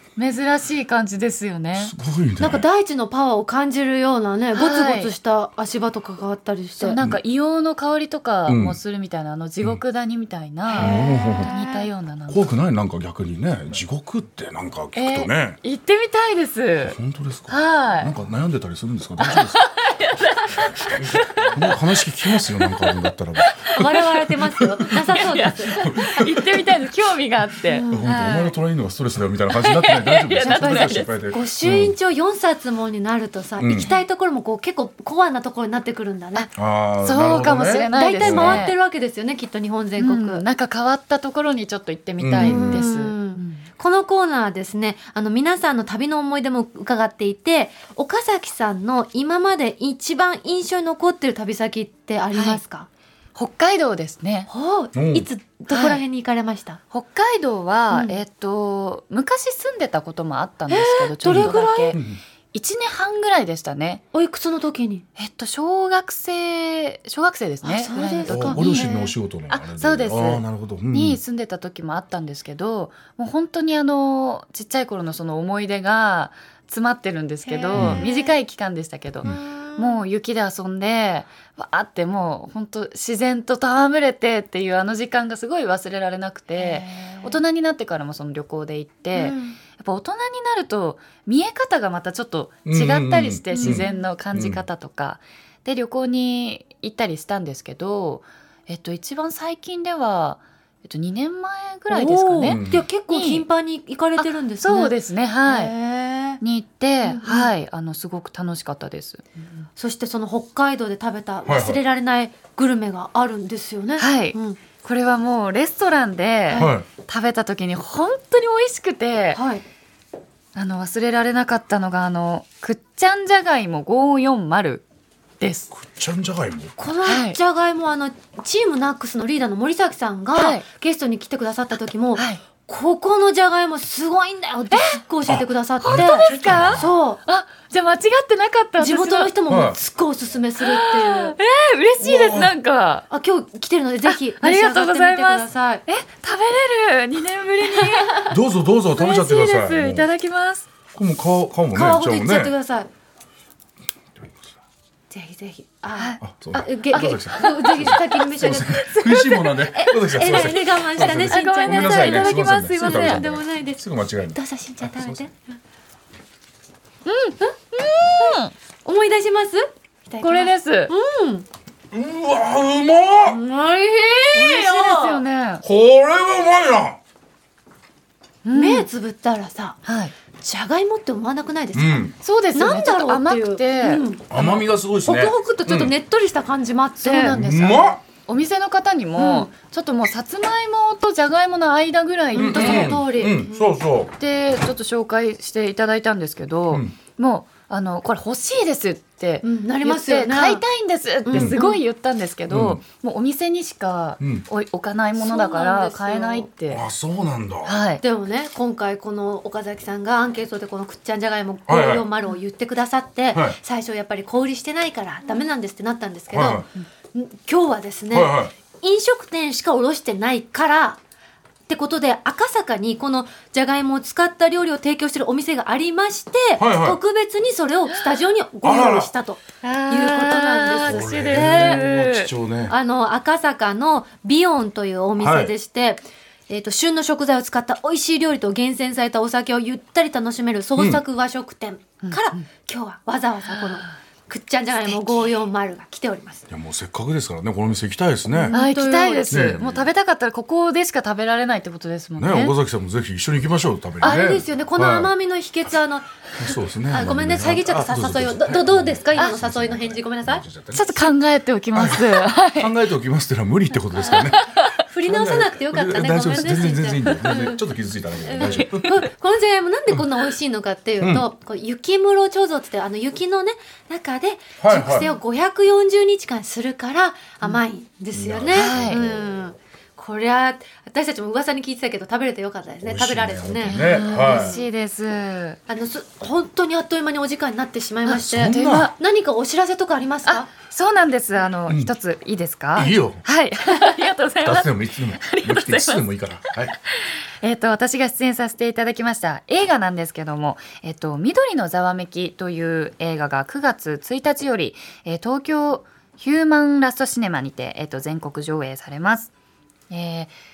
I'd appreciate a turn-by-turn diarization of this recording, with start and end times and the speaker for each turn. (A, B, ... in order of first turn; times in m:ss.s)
0:00.2-0:01.9 A
0:01.8-0:02.6 B
0:02.4-0:07.0 C
0:04.5-0:05.1 A
0:06.8-0:12.4 A
0:08.5-0:08.8 B
0:10.7-0:11.9 C
0:10.8-0:11.5 B
0:12.3-0:15.6 B
0:15.0-0:17.0 A
0:16.8-0:19.6 B
0:17.5-0:18.1 A
0:19.2-0:21.8 A
0:21.0-0:23.7 B
0:22.6-0:28.6 A
0:23.7-0:25.8 C
0:25.8-0:26.6 B
0:27.7-0:28.1 C
0:27.9-0:32.0 B
0:29.5-0:31.1 A
0:30.4-0:36.5 C
0:33.6-0:34.0 B
0:36.5-0:38.6 B
0:37.0-0:38.8 A
0:37.3-0:40.4 C
0:40.0-0:43.6 A
0:42.2-0:42.8 B
0:42.4-0:52.9 C
0:52.3-0:52.6 A
0:53.4-0:54.5 A
0:54.5-0:56.8 C
0:55.0-0:55.3 B
0:55.7-0:56.0 A
0:56.9-1:02.0 A
0:57.9-0:58.2 C
1:00.7-1:02.0 C
1:01.3-1:02.2 B
1:02.5-1:04.0 A
1:04.1-1:05.0 C
1:05.2-1:08.9 A
1:07.6-1:09.1 C
1:08.3-1:11.2 B
1:09.5-1:43.4 A
1:17.5-1:18.3 C
1:17.7-1:18.0 B
1:19.2-1:20.0 C
1:26.6-1:27.3 C
1:29.1-1:29.6 C
1:32.7-1:34.6 B
1:33.5-1:34.0 C
1:41.9-1:45.0 C
1:42.5-1:42.8 B
1:44.2-1:45.7 A
1:45.5-1:46.4 C
1:46.4-1:49.3 A
1:47.1-1:47.5 C
1:49.8-1:54.6 C
1:51.5-1:51.8 B
1:54.0-1:59.4 A
1:56.6-1:56.9 B
1:59.3-1:59.6 C
2:00.6-2:04.8 A
2:05.4-2:05.7 A
2:05.7-2:06.7 B
2:06.8-2:17.2 C
2:07.1-2:07.4 A
2:10.4-2:10.6 A
2:12.2-2:12.4 A
2:14.7-2:15.0 A
2:15.2-2:16.9 B
2:15.8-2:19.4 A
2:18.8-2:21.4 C
2:19.5-2:19.8 B
2:20.6-2:23.0 A
2:22.0-2:22.5 B
2:23.1-2:25.8 C
2:24.0-2:28.3 A
2:27.8-2:28.2 C
2:28.3-2:30.1 B
2:29.0-2:30.6 A
2:30.9-2:32.5 B
2:31.7-2:32.9 C
2:35.1-2:45.4 C
2:36.0-2:36.2 A
2:36.2-2:45.2 B
2:36.9-2:37.8 A
2:38.8-2:39.6 A
2:41.0-2:43.2 A
2:47.1-2:48.5 A
2:47.4-2:51.5 C
2:50.2-2:50.9 A
2:51.9-2:53.4 B
2:53.3-2:55.2 C
2:54.3-2:55.6 A
2:55.6-2:57.0 B
2:58.4-2:58.9 A
2:58.5-2:59.8 C
2:59.8-3:00.1 A
3:00.4-3:08.0 C
3:01.7-3:02.1 B
3:02.2-3:04.0 A
3:04.3-3:05.9 B
3:07.0-3:13.0 A
3:07.2-3:08.0 B
3:09.2-3:09.5 C
3:12.3-3:13.7 C
3:12.4-3:14.1 B
3:14.2-3:26.8 A
3:19.4-3:20.6 C
3:21.3-3:21.8 C
3:22.5-3:22.8 B
3:24.2-3:24.4 B
3:25.2-3:26.5 C
3:26.7-3:27.8 B
3:27.6-3:28.0 A
3:28.0-3:41.0 C
3:31.7-3:32.0 B
3:36.3-3:36.7 B
3:38.1-3:38.5 B
3:41.7-3:51.8 C
3:46.6-3:47.0 B
3:48.6-3:49.1 B
3:49.7-3:52.3 A
3:50.8-3:52.7 B
3:52.7-4:06.5 C
3:55.2-3:55.5 B
4:02.0-4:02.4 A
4:03.5-4:03.8 A
4:06.5-4:08.6 B
4:08.3-4:09.5 C
4:08.5-4:12.6 A
4:09.3-4:09.9 B
4:12.2-4:15.1 B
4:14.0-4:16.2 C
4:16.3-4:21.1 B
4:16.9-4:20.4 C
4:20.7-4:22.7 A
4:21.8-4:28.9 B
4:24.0-4:24.3 C
4:24.4-4:24.7 A
4:24.9-4:27.6 C
4:28.2-4:44.6 C
4:28.4-4:28.9 A
4:31.0-4:31.2 B
4:34.6-4:35.1 B
4:38.1-4:39.2 B
4:38.5-4:39.0 A
4:42.8-4:44.6 B
4:43.7-4:45.6 A
4:45.7-4:50.5 C
4:48.1-4:48.9 B
4:48.4-4:49.0 A
4:50.2-4:56.0 A
4:52.8-4:53.2 B
4:54.4-4:56.7 B
4:56.9-5:09.3 A
5:09.9-5:10.3 A